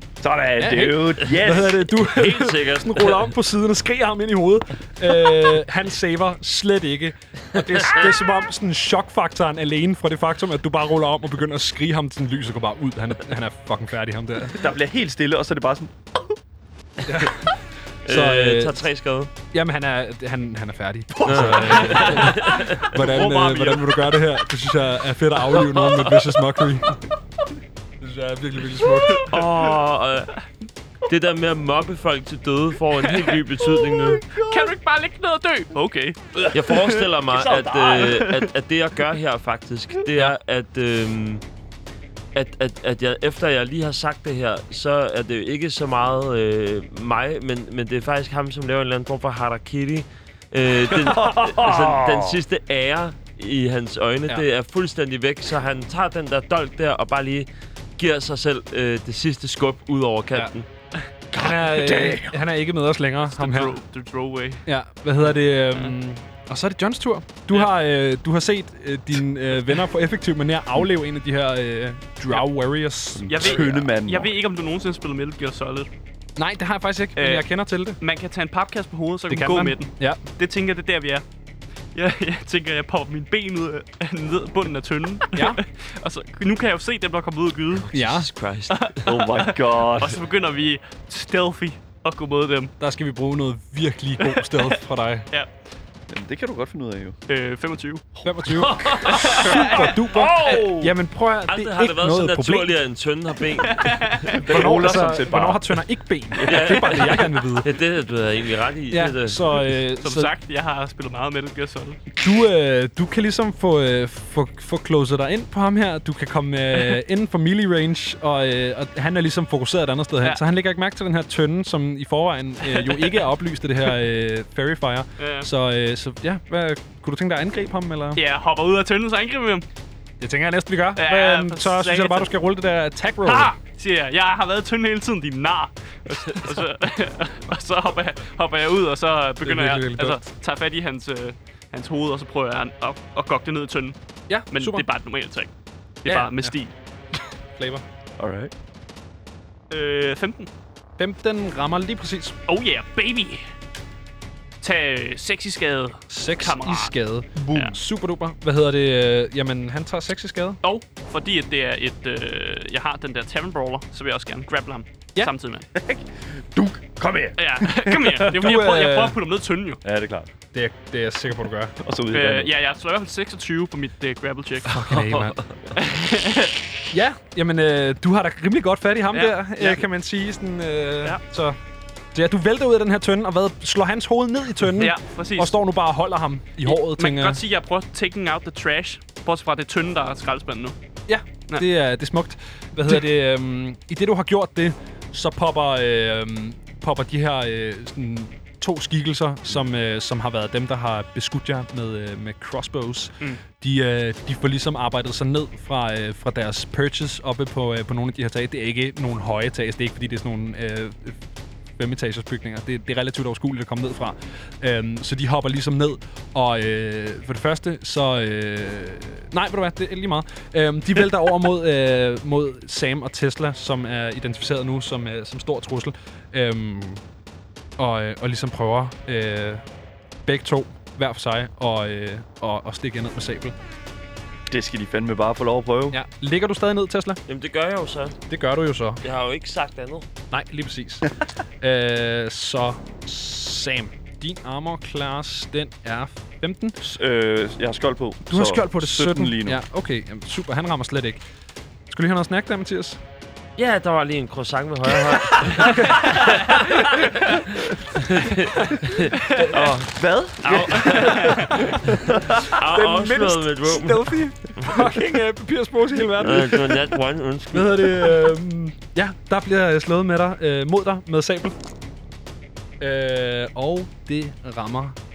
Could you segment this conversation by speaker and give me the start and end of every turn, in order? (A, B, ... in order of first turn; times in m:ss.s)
0:00.2-0:01.9 A
0:00.6-0:14.6 B
0:02.0-0:03.3 C
0:14.5-0:16.0 A
0:17.0-0:18.9 B
0:18.0-0:19.3 C
0:19.5-0:27.0 B
0:21.2-0:22.2 A
0:21.2-0:22.9 C
0:21.9-0:24.0 D
0:28.0-0:29.3 B
0:29.2-0:30.4 C
0:31.0-0:34.3 C
0:33.0-0:37.0 D
0:34.0-0:34.7 A
0:36.5-0:41.4 C
0:37.3-0:38.2 A
0:37.9-0:38.5 D
0:42.3-0:57.5 C
0:50.9-0:52.4 A
0:58.0-1:00.6 C
1:01.3-1:02.4 A
1:01.4-1:03.8 B
1:03.3-1:04.6 D
1:04.6-1:13.7 B
1:05.2-1:05.9 D
1:13.1-1:14.3 A
1:13.3-1:15.9 D
1:16.4-1:18.0 B
1:17.2-1:17.4 D
1:18.0-1:21.2 D
1:19.3-1:20.2 B
1:21.9-1:27.9 D
1:25.3-1:25.6 B
1:27.7-1:29.1 C
1:27.9-1:28.3 B
1:28.7-1:32.7 D
1:29.0-1:30.2 A
1:32.8-1:35.3 B
1:34.2-1:34.8 D
1:36.1-1:37.2 A
1:37.3-1:38.1 D
1:38.2-1:42.8 B
1:38.6-1:40.8 C
1:39.0-1:40.7 D
1:40.1-1:40.9 A
1:41.5-1:44.3 C
1:43.6-1:44.7 D
1:44.3-1:45.8 A
1:44.5-1:47.7 B
1:46.4-1:46.9 A
1:46.4-1:49.7 C
1:46.5-1:46.7 D
1:48.9-1:50.3 B
1:50.0-1:52.0 D
1:52.2-2:08.2 B
2:02.6-2:03.2 D
2:05.2-2:05.5 D
2:08.2-2:09.6 D
2:10.2-2:13.5 B
2:11.0-2:12.3 D
2:13.2-2:24.0 D
2:19.4-2:20.2 B
2:24.3-2:24.9 B
2:24.5-2:25.5 D
2:26.0-2:26.7 D
2:26.0-2:26.5 B
2:27.6-2:27.8 B
2:28.2-2:28.5 A
2:29.7-2:30.5 D
2:31.0-2:32.4 B
2:32.5-2:33.4 D
2:34.6-2:37.0 D
2:36.1-2:40.6 B
2:37.4-2:37.8 A
2:37.5-2:37.8 D
2:40.6-2:45.7 D
2:45.7-2:48.3 A
2:47.4-2:49.8 D
2:48.3-2:49.2 B
2:49.8-2:50.3 A
2:50.5-2:51.8 B
2:51.8-2:52.5 A
2:52.1-2:54.8 D
2:54.6-2:55.4 B
2:54.8-2:55.5 C
2:55.7-2:56.6 D
2:56.9-3:01.6 B
2:59.1-2:59.8 D
3:02.1-3:07.4 B
3:04.8-3:05.6 D
3:06.6-3:10.8 D
3:11.1-3:31.2 B
3:31.8-3:47.0 B
3:47.8-3:49.6 B
3:50.2-3:53.5 B
3:54.5-3:56.0 A
3:55.9-3:57.2 B
3:57.3-3:58.2 C
3:58.3-3:59.0 B
3:59.0-4:00.1 C
4:00.3-4:06.8 B
4:06.8-4:09.6 A
4:08.3-4:11.2 B
4:11.9-4:13.0 B
4:13.6-4:24.9 C
4:15.4-4:17.4 B
4:15.8-4:16.6 D
4:18.5-4:19.7 B
4:19.9-4:22.6 A
4:20.8-4:21.6 D
4:21.2-4:27.0 B
4:26.2-4:28.3 C
4:27.5-4:31.5 B
4:32.8-4:35.0 B